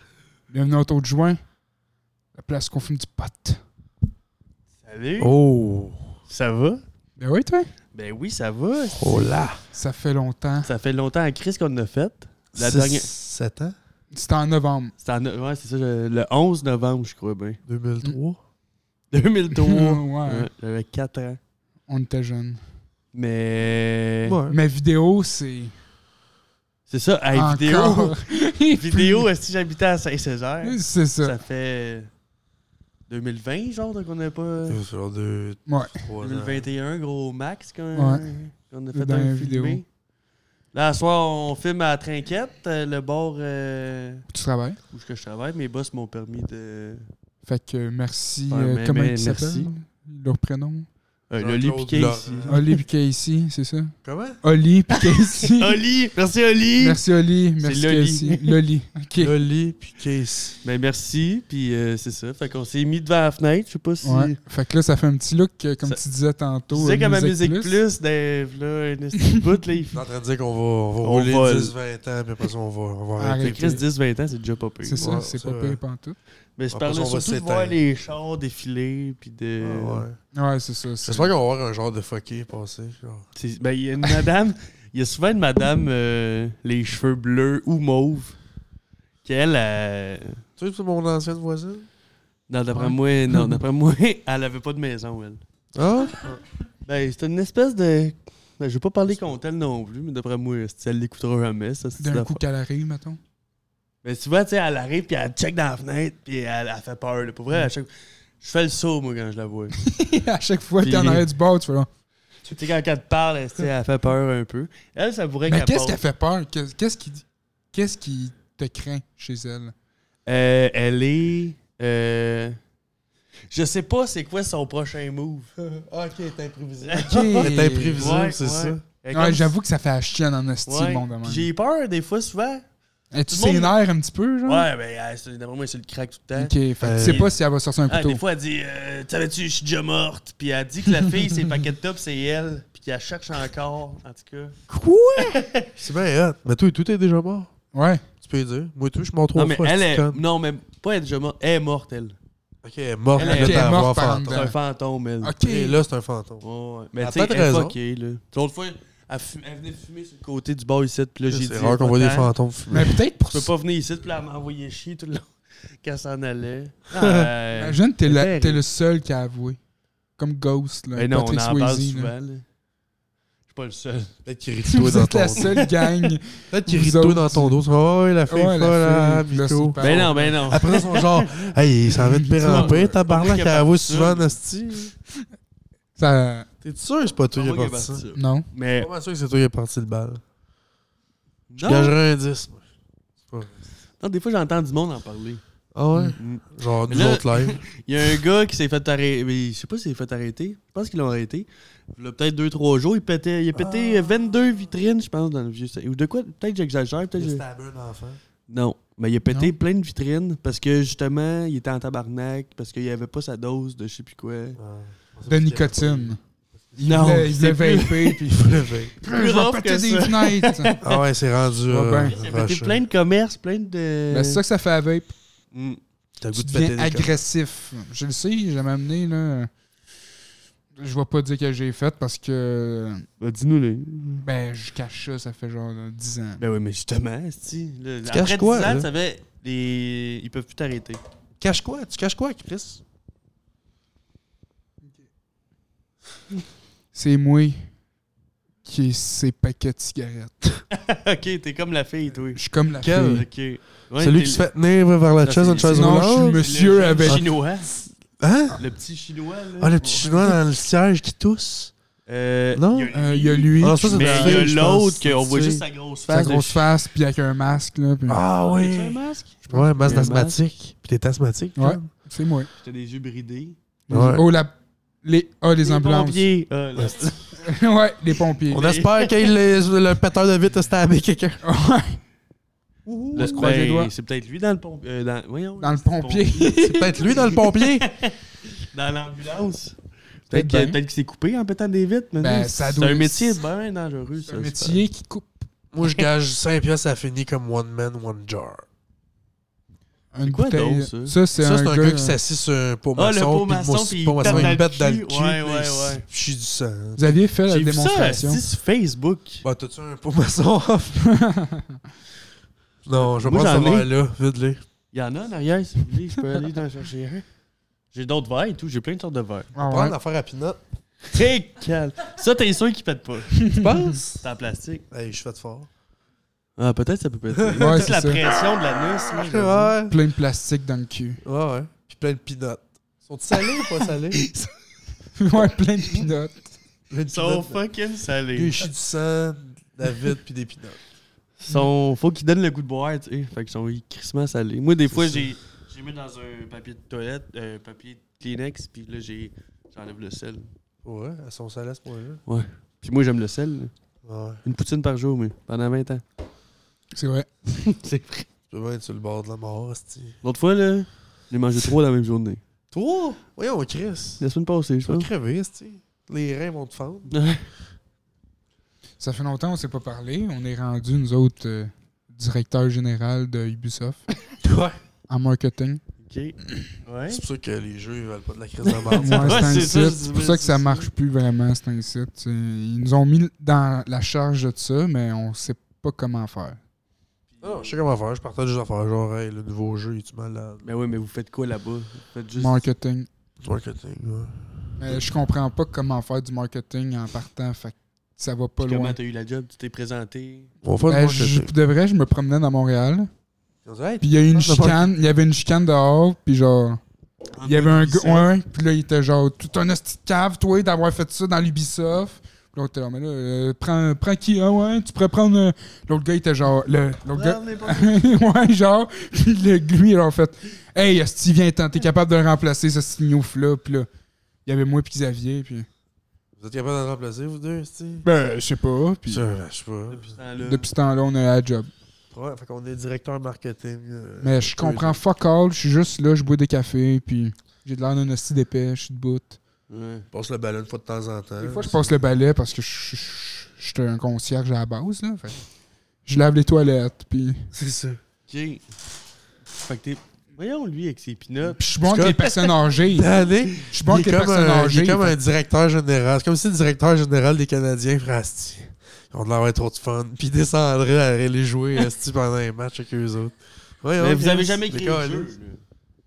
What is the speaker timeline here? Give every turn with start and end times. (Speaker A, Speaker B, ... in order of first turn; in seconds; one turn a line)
Speaker A: 0.5-1.4
Speaker A: 2.3-3.6
Speaker B: 4.8-5.3
Speaker C: 5.2-6.2
Speaker B: 6.3-6.8
Speaker A: 7.2-7.7
Speaker B: 7.9-9.4
Speaker C: 8.9-9.6
Speaker A: 9.7-10.7
Speaker B: 10.6-13.1
Speaker C: 12.5-13.7
Speaker A: 14.1-14.9
Speaker B: 15.0-17.6
Speaker C: 17.6-18.4
Speaker B: 19.1-21.4
Speaker A: 19.5-20.5
Speaker A: 21.9-22.6
Speaker B: 23.1-24.4
Speaker C: 24.2-24.6
Speaker A: 24.5-25.7
Speaker B: 26.9-32.1
Speaker A: 27.3-29.3
Speaker A: 30.6-31.4
Speaker B: 33.1-34.8
Speaker C: 34.7-36.7
Speaker A: 35.7-36.0
Speaker B: 36.2-39.8
Speaker A: 37.9-38.3
Speaker A: 38.9-39.8
Speaker B: 40.7-44.2
Speaker A: 44.3-44.8
Speaker B: 44.9-47.0
Speaker A: 47.4-50.9
Speaker B: 48.5-49.7
Speaker B: 51.3-52.6
Speaker C: 51.4-52.6
Speaker A: 52.5-55.8
Speaker C: 54.0-54.4
Speaker B: 55.4-57.0
Speaker A: 56.8-59.3
Speaker B: 57.6-58.6
Speaker C: 59.2-60.6
Speaker B: 60.6-64.3
Speaker A: 64.0-67.8
Speaker B: 66.7-70.0
Speaker C: 69.9-73.8
Speaker B: 71.0-71.7
Speaker A: 73.2-73.8
Speaker B: 73.4-75.0
Speaker A: 74.8-76.2
Speaker C: 75.0-75.8
Speaker B: 76.6-80.0
Speaker C: 76.7-77.8
Speaker C: 79.6-80.2
Speaker A: 80.3-81.3
Speaker C: 81.0-83.2
Speaker B: 83.3-88.3
Speaker B: 89.2-90.4
Speaker C: 90.6-91.9
Speaker B: 92.5-95.4
Speaker A: 92.7-93.6
Speaker C: 95.7-96.4
Speaker B: 96.8-102.4
Speaker A: 102.0-103.2
Speaker B: 104.0-107.9
Speaker B: 108.4-109.8
Speaker A: 109.8-111.9
Speaker B: 110.8-111.2
Speaker B: 112.5-116.0
Speaker A: 115.5-119.7
Speaker B: 120.2-122.5
Speaker B: 123.5-125.5
Speaker C: 125.6-128.8
Speaker B: 126.8-129.5
Speaker A: 127.0-128.2
Speaker A: 129.1-131.5
Speaker B: 130.7-132.6
Speaker A: 133.1-134.7
Speaker B: 133.3-133.7
Speaker B: 134.4-137.3
Speaker A: 136.3-138.2
Speaker C: 136.8-137.2
Speaker B: 137.9-144.6
Speaker A: 144.7-145.4
Speaker B: 145.2-145.8
Speaker C: 145.8-147.5
Speaker A: 147.7-148.0
Speaker C: 148.2-150.2
Speaker B: 149.3-152.2
Speaker C: 152.6-154.5
Speaker B: 153.1-155.3
Speaker A: 153.2-154.5
Speaker A: 155.2-155.8
Speaker C: 155.4-156.4
Speaker B: 156.4-162.3
Speaker C: 157.0-157.8
Speaker C: 161.3-162.9
Speaker A: 162.7-163.5
Speaker B: 163.3-165.3
Speaker B: 165.8-168.6
Speaker C: 166.9-167.3
Speaker A: 167.6-169.6
Speaker A: 170.2-172.1
Speaker B: 170.9-172.4
Speaker B: 173.5-174.1
Speaker C: 174.2-175.6
Speaker A: 174.7-177.6
Speaker B: 175.3-175.9
Speaker C: 176.5-184.9
Speaker A: 178.3-180.4
Speaker B: 179.8-181.5
Speaker A: 182.1-182.9
Speaker B: 182.4-184.3
Speaker A: 186.0-186.5
Speaker C: 186.6-188.0
Speaker B: 187.3-188.9
Speaker A: 188.1-188.4
Speaker C: 188.8-190.2
Speaker B: 191.5-191.9
Speaker C: 191.6-192.6
Speaker C: 193.2-193.5
Speaker B: 194.0-195.4
Speaker C: 195.7-197.6
Speaker B: 196.2-207.4
Speaker C: 203.5-204.7
Speaker C: 207.2-208.2
Speaker B: 208.5-214.6
Speaker C: 214.6-216.2
Speaker A: 215.3-216.2
Speaker A: 216.7-218.2
Speaker B: 216.8-218.3
Speaker C: 218.2-218.9
Speaker B: 219.0-221.0
Speaker A: 219.0-220.7
Speaker C: 220.8-222.8
Speaker A: 221.7-222.2
Speaker B: 222.0-224.4
Speaker A: 224.1-225.1
Speaker B: 225.5-225.8
Speaker C: 226.2-227.1
Speaker A: 226.3-229.5
Speaker A: 230.8-233.1
Speaker B: 233.2-234.2
Speaker A: 234.2-236.4
Speaker B: 236.4-241.0
Speaker C: 238.1-238.9
Speaker C: 241.4-242.8
Speaker A: 246.9-247.7
Speaker A: 248.6-250.6
Speaker B: 250.7-254.4
Speaker A: 252.3-253.2
Speaker C: 252.8-253.2
Speaker C: 254.0-257.3
Speaker B: 255.2-257.7
Speaker A: 255.6-257.2
Speaker C: 258.2-258.6
Speaker B: 258.6-260.3
Speaker C: 259.6-261.7
Speaker B: 262.1-266.6
Speaker C: 262.5-262.9
Speaker A: 262.9-264.5
Speaker C: 263.6-265.6
Speaker A: 266.1-268.2
Speaker C: 268.1-269.0
Speaker B: 268.5-270.4
Speaker C: 269.5-271.9
Speaker A: 271.6-272.5
Speaker B: 272.6-273.6
Speaker A: 273.9-276.3
Speaker C: 273.9-274.2
Speaker B: 275.6-277.2
Speaker C: 276.8-277.1
Speaker A: 277.4-278.8
Speaker C: 278.5-281.4
Speaker B: 278.6-279.3
Speaker A: 281.4-282.0
Speaker C: 282.9-283.5
Speaker B: 283.1-289.8
Speaker A: 283.1-283.9
Speaker A: 285.6-287.0
Speaker C: 286.6-287.9
Speaker B: 290.3-294.8
Speaker A: 290.3-290.8
Speaker A: 292.2-293.4
Speaker A: 294.3-295.4
Speaker C: 295.7-298.6
Speaker A: 300.1-302.2
Speaker B: 300.2-301.2
Speaker C: 301.4-307.1
Speaker B: 302.9-306.0
Speaker A: 304.2-304.6
Speaker A: 307.0-308.4
Speaker B: 307.5-309.4
Speaker C: 309.4-311.1
Speaker A: 311.0-311.8
Speaker C: 312.8-314.6
Speaker B: 312.9-313.9
Speaker B: 314.9-317.2
Speaker B: 317.9-319.5
Speaker A: 319.5-319.9
Speaker C: 319.6-320.6
Speaker B: 321.1-323.5
Speaker A: 323.4-323.9
Speaker C: 323.6-324.2
Speaker B: 324.2-324.8
Speaker C: 324.9-325.7
Speaker B: 326.6-329.7
Speaker C: 327.4-329.9
Speaker A: 327.6-328.2
Speaker A: 329.9-331.2
Speaker C: 331.2-334.2
Speaker B: 333.4-334.5
Speaker A: 335.1-336.5
Speaker C: 336.9-337.6
Speaker B: 337.1-338.7
Speaker C: 338.3-340.8
Speaker B: 341.4-350.4
Speaker C: 344.9-345.3
Speaker C: 350.8-352.2
Speaker B: 352.3-353.7
Speaker C: 354.0-354.4
Speaker B: 354.4-356.0
Speaker A: 356.9-357.4
Speaker B: 357.6-358.3
Speaker C: 358.5-360.1
Speaker B: 360.2-362.4
Speaker C: 362.7-364.2
Speaker B: 364.2-365.1
Speaker C: 364.9-367.1
Speaker B: 367.1-367.4
Speaker A: 369.0-374.0
Speaker C: 374.4-374.8
Speaker A: 375.1-375.8
Speaker B: 376.0-377.2
Speaker C: 377.1-379.8
Speaker B: 378.6-380.9
Speaker A: 378.9-386.6
Speaker B: 387.3-387.8
Speaker C: 387.4-390.6
Speaker B: 390.6-392.7
Speaker A: 392.4-393.1
Speaker C: 393.4-395.0
Speaker A: 394.8-398.9
Speaker B: 398.6-400.5
Speaker C: 400.6-401.5
Speaker A: 400.9-403.1
Speaker C: 403.6-404.9
Speaker A: 404.0-406.8
Speaker B: 407.4-408.3
Speaker A: 407.4-423.9
Speaker B: 417.1-418.1
Speaker A: 424.4-425.7
Speaker C: 426.4-428.1
Speaker A: 428.0-429.2
Speaker C: 429.1-430.1
Speaker B: 429.9-430.7
Speaker A: 430.4-431.7
Speaker C: 432.1-435.0
Speaker A: 434.2-439.4
Speaker B: 439.7-440.1
Speaker C: 440.1-441.9
Speaker A: 441.4-445.4
Speaker A: 446.1-447.5
Speaker C: 447.5-448.0
Speaker B: 448.3-448.6
Speaker B: 449.5-451.6
Speaker A: 451.6-455.1
Speaker C: 451.8-452.3
Speaker C: 452.9-465.3
Speaker B: 464.0-465.6